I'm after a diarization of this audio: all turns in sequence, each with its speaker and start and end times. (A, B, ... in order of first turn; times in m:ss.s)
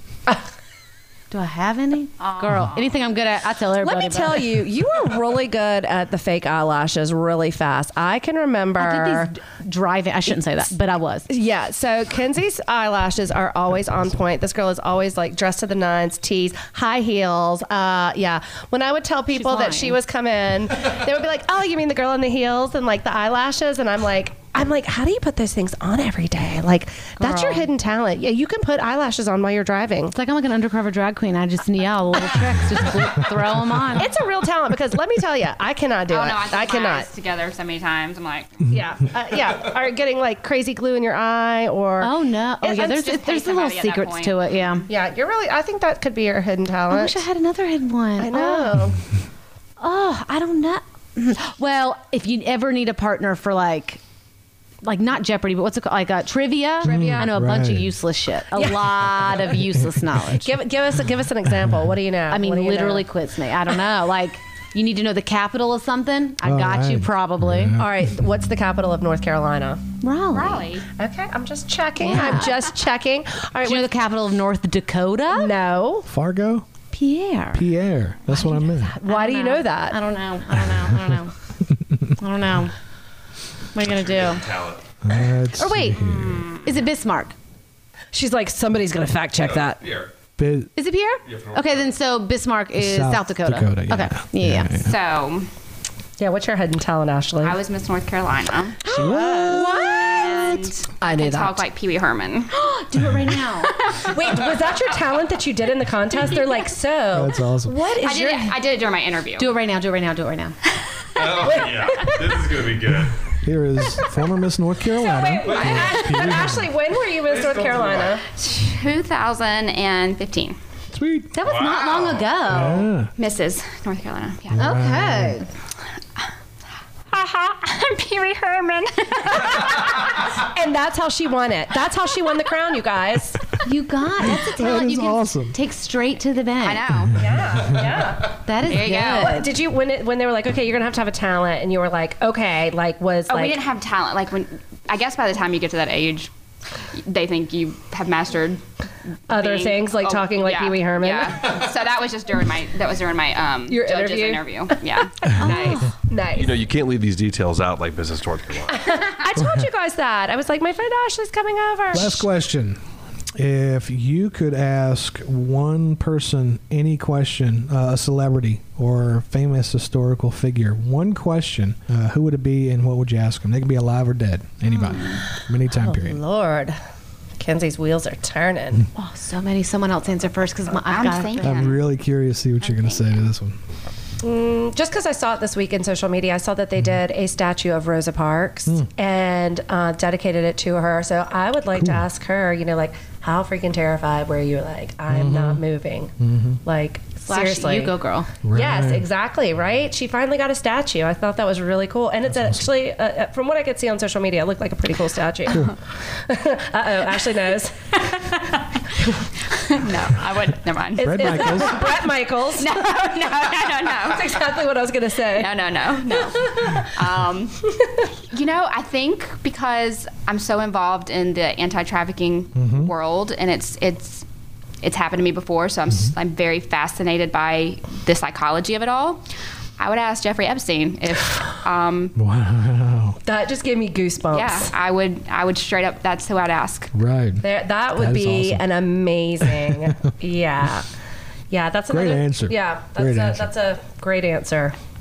0:01.3-0:04.6 A
0:02.2-0:03.1 B
0:03.8-0:09.3 C
0:08.8-0:11.3 A
0:11.3-0:30.1 C
0:19.3-0:20.0 A
0:27.2-0:27.7 A
0:30.1-0:34.1 A
0:34.0-0:37.1 C
0:36.1-0:38.8 B
0:38.7-0:42.1 C
0:42.0-0:44.9 A
0:42.6-0:44.7 B
0:44.9-0:47.2 C
0:46.9-0:49.0 A
0:48.2-0:49.0 C
0:49.8-0:54.0 A
0:54.8-1:00.5 A
0:56.8-0:58.0 D
0:56.8-0:57.4 C
0:58.6-0:59.3 C
1:00.4-1:03.1 C
1:02.3-1:07.8 A
1:06.4-1:08.1 D
1:07.8-1:09.8 C
1:10.0-1:10.7 A
1:10.3-1:10.8 B
1:11.0-1:13.9 C
1:12.0-1:12.7 A
1:13.6-1:15.6 A
1:15.3-1:16.1 C
1:16.1-1:16.7 D
1:16.9-1:17.6 A
1:17.5-1:19.0 D
1:18.3-1:21.3 A
1:18.9-1:20.0 C
1:22.2-1:22.7 A
1:23.7-1:24.6 A
1:23.8-1:24.8 E
1:25.0-1:26.5 D
1:25.6-1:27.4 A
1:26.0-1:26.7 B
1:28.1-1:29.8 C
1:29.4-1:30.1 E
1:30.4-1:30.7 D
1:30.8-1:34.7 A
1:31.3-1:31.9 E
1:32.8-1:35.0 D
1:34.8-1:35.5 B
1:36.2-1:37.6 C
1:37.4-1:38.8 B
1:38.8-1:40.7 A
1:38.9-1:40.2 D
1:40.0-1:42.5 B
1:41.0-1:41.6 C
1:42.5-1:43.9 A
1:43.8-1:44.2 B
1:44.0-1:48.6 C
1:47.1-1:47.8 D
1:48.0-1:49.5 B
1:49.4-1:50.6 A
1:51.2-1:53.2 E
1:51.3-1:52.4 C
1:53.4-1:56.7 D
1:54.9-1:58.2 C
1:55.5-1:56.2 E
1:55.5-1:56.0 B
1:57.2-1:58.2 E
1:58.4-2:00.6 B
2:00.9-2:01.3 D
2:01.3-2:02.9 A
2:01.4-2:02.4 E
2:02.5-2:03.1 D
2:03.2-2:04.8 B
2:04.5-2:05.4 D
2:04.6-2:05.5 A
2:07.1-2:09.9 B
2:10.4-2:13.4 C
2:13.6-2:17.0 A
2:14.2-2:15.6 D
2:16.6-2:17.2 B
2:17.2-2:18.3 C
2:18.4-2:19.6 A
2:18.6-2:19.3 B
2:19.2-2:23.6 C
2:23.3-2:26.3 B
2:26.9-2:28.6 B
2:29.3-2:31.5 C
2:29.3-2:35.7 B
2:33.7-2:36.6 C
2:35.4-2:35.9 A
2:36.3-2:38.8 E
2:38.7-2:42.3 C
2:41.9-2:42.8 D
2:43.4-2:56.2 D
2:54.7-2:55.2 B
2:55.7-2:56.8 C
2:57.4-2:58.8 C
2:59.0-3:01.8 A
3:00.9-3:01.8 B
3:01.4-3:03.6 D
3:02.6-3:03.3 B
3:04.2-3:16.1 C
3:11.8-3:12.0 D
3:15.1-3:15.6 D
3:16.2-3:16.6 D
3:16.6-3:17.9 C
3:17.3-3:18.3 A
3:18.4-3:19.1 D
3:18.5-3:25.7 C
3:22.3-3:22.6 D
3:26.2-3:28.2 C
3:29.5-3:31.7 B
3:31.0-3:32.8 C
3:31.0-3:32.0 D
3:32.6-3:34.4 B
3:34.0-3:35.5 C
3:35.3-3:37.7 B
3:38.3-3:44.2 B
3:42.6-3:42.9 D
3:44.8-3:49.2 B
3:49.8-3:52.2 B
3:52.2-3:53.2 D
3:53.2-3:54.7 C
3:54.3-3:56.9 B
3:56.9-3:58.6 D
3:57.4-4:00.9 C
3:59.4-3:59.7 D
4:01.5-4:04.8 C
4:01.9-4:03.5 D